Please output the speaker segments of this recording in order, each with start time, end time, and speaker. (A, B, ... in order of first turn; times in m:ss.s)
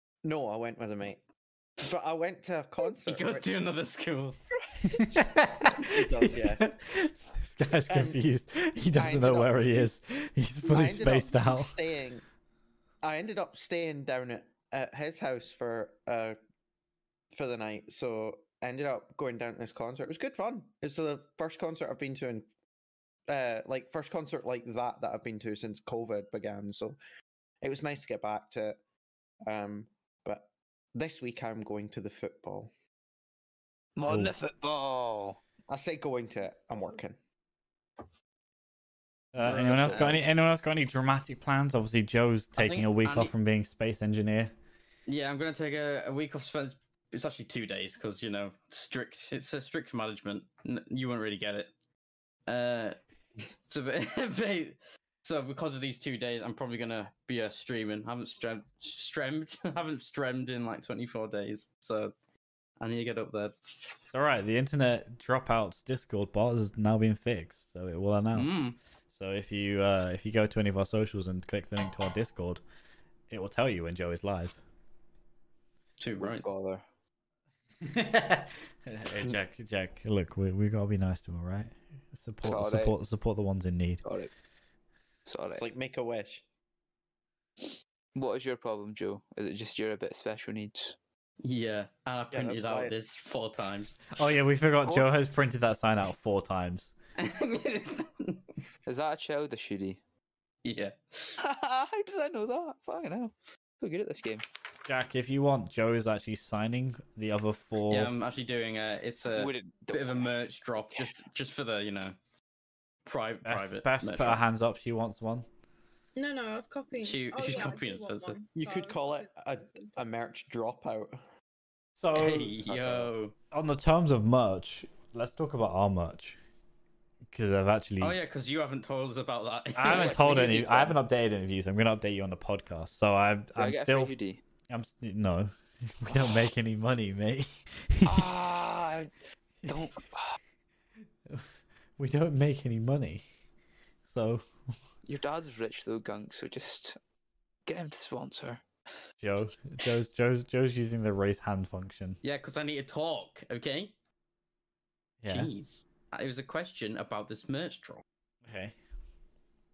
0:00.2-0:01.2 A
0:01.8-0:03.5 A
0:03.1-0:04.4 B
0:04.9-0:11.8 C
0:05.7-0:06.7 A
0:07.9-0:08.2 A
0:08.9-0:09.9 A
0:10.6-0:12.2 A
0:13.0-0:16.4 A
0:17.3-0:22.5 A
0:23.3-0:27.0 A
0:27.6-0:28.8 A
0:29.4-0:32.7 A
0:34.0-0:35.4 D
0:34.1-0:34.4 C
0:35.7-0:37.2 A
0:39.3-0:44.5 C
0:39.4-0:40.2 B
0:42.6-0:43.3 B
0:45.1-0:51.7 B
0:52.5-0:53.0 B
0:53.6-1:02.1 B
1:02.8-1:03.7 B
1:04.1-1:12.6 C
1:08.3-1:08.8 B
1:13.3-1:14.6 C
1:16.0-1:16.5 B
1:16.2-1:16.8 D
1:17.8-1:24.0 C
1:22.4-1:23.0 D
1:24.0-1:24.3 D
1:25.3-1:25.6 D
1:25.6-1:26.4 A
1:28.2-1:31.0 D
1:31.4-1:34.2 B
1:32.3-1:33.0 A
1:34.2-1:36.9 C
1:37.2-1:38.4 B
1:38.9-1:40.0 D
1:40.6-1:41.4 B
1:41.4-1:44.4 D
1:44.9-1:48.1 C
1:47.9-1:52.2 B
1:49.3-1:50.4 D
1:53.0-1:54.4 B
1:53.5-1:55.5 C
1:56.2-2:00.0 E
1:57.0-1:58.4 B
1:58.6-2:01.2 A
2:02.0-2:02.5 C
2:02.1-2:03.3 B
2:02.7-2:03.1 A
2:03.5-2:06.4 C
2:07.3-2:08.2 C
2:08.0-2:10.9 B
2:09.8-2:14.1 C
2:09.8-2:10.9 D
2:13.6-2:14.4 D
2:14.7-2:18.3 C
2:18.0-2:19.1 D
2:19.6-2:20.4 D
2:22.0-2:23.2 C
2:24.0-2:24.4 C
2:25.0-2:27.0 D
2:27.7-2:28.6 D
2:29.2-2:32.2 C
2:32.2-2:33.9 B
2:35.2-2:35.5 C
2:35.3-2:38.0 B
2:38.4-2:38.8 C